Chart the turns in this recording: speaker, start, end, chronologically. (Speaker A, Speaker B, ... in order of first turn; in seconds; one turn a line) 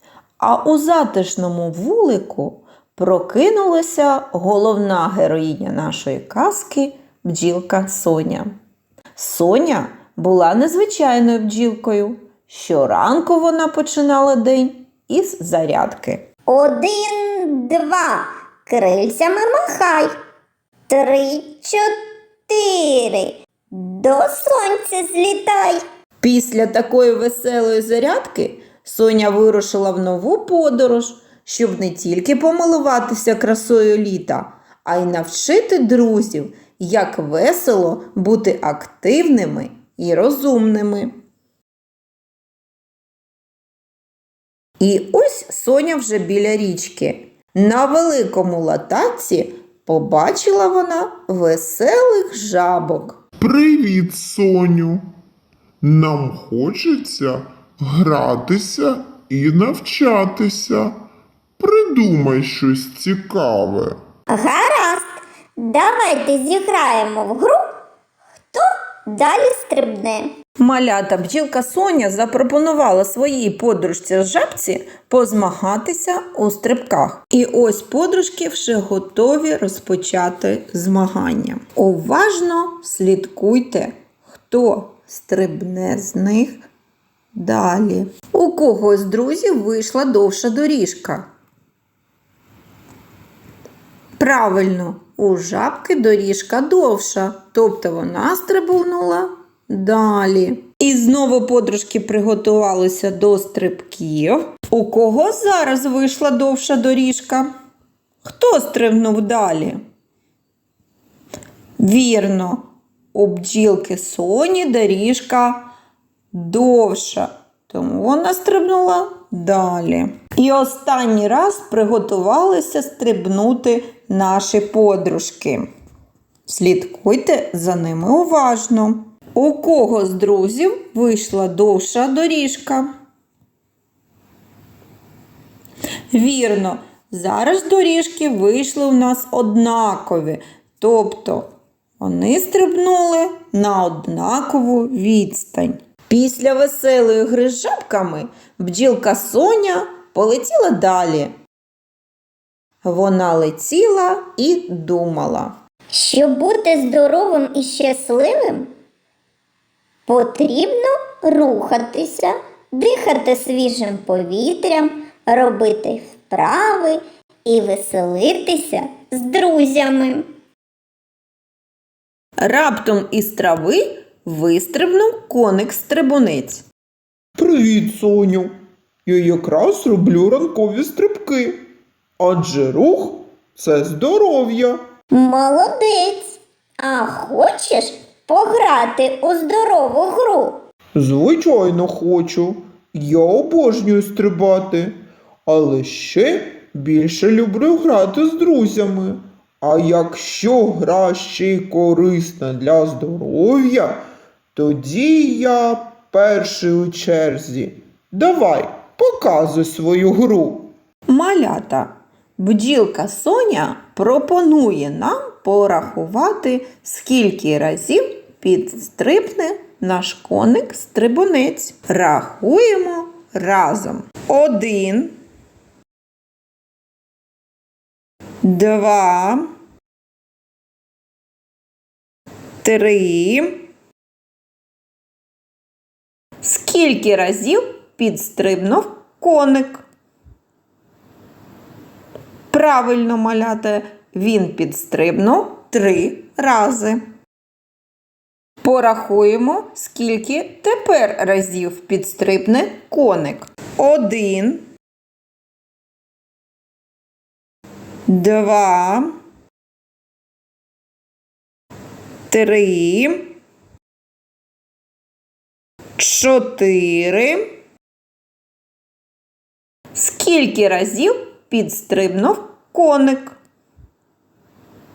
Speaker A: 0.4-8.5
Speaker A: 9.2-16.3
Speaker B: 16.5-20.1
Speaker B: 20.9-21.9
Speaker B: 22.5-25.8
Speaker A: 26.2-41.1
Speaker A: 44.8-53.2
Speaker C: 53.4-55.1
Speaker C: 55.8-61.0
Speaker C: 61.6-64.0
Speaker B: 64.3-65.1
Speaker B: 65.6-67.6
Speaker B: 68.5-70.3
Speaker A: 70.6-86.6
Speaker A: 87.3-91.2
Speaker A: 94.2-107.5
Speaker A: 108.2-109.8
Speaker A: 111.8-115.7
Speaker A: 116.3-125.7
Speaker A: 126.5-132.9
Speaker A: 136.1-151.3
Speaker A: 152.8-155.5
Speaker B: 155.9-158.7
Speaker B: 160.1-170.2
Speaker A: 172.4-176.6
Speaker D: 177.4-178.5
Speaker D: 179.1-181.6
Speaker D: 182.2-184.8
Speaker B: 185.1-190.6
Speaker D: 190.9-194.9
Speaker D: 195.5-204.0
Speaker D: 204.6-210.7
Speaker A: 211.1-225.1
Speaker A: 228.4-229.5
Speaker A: 232.6-233.6
Speaker A: 236.4-239.8
Speaker A: 242.5-247.0
Speaker A: 248.6-254.6
Speaker A: 258.1-259.1
Speaker A: 262.3-263.3
Speaker A: 266.0-267.5
Speaker A: 269.9-273.4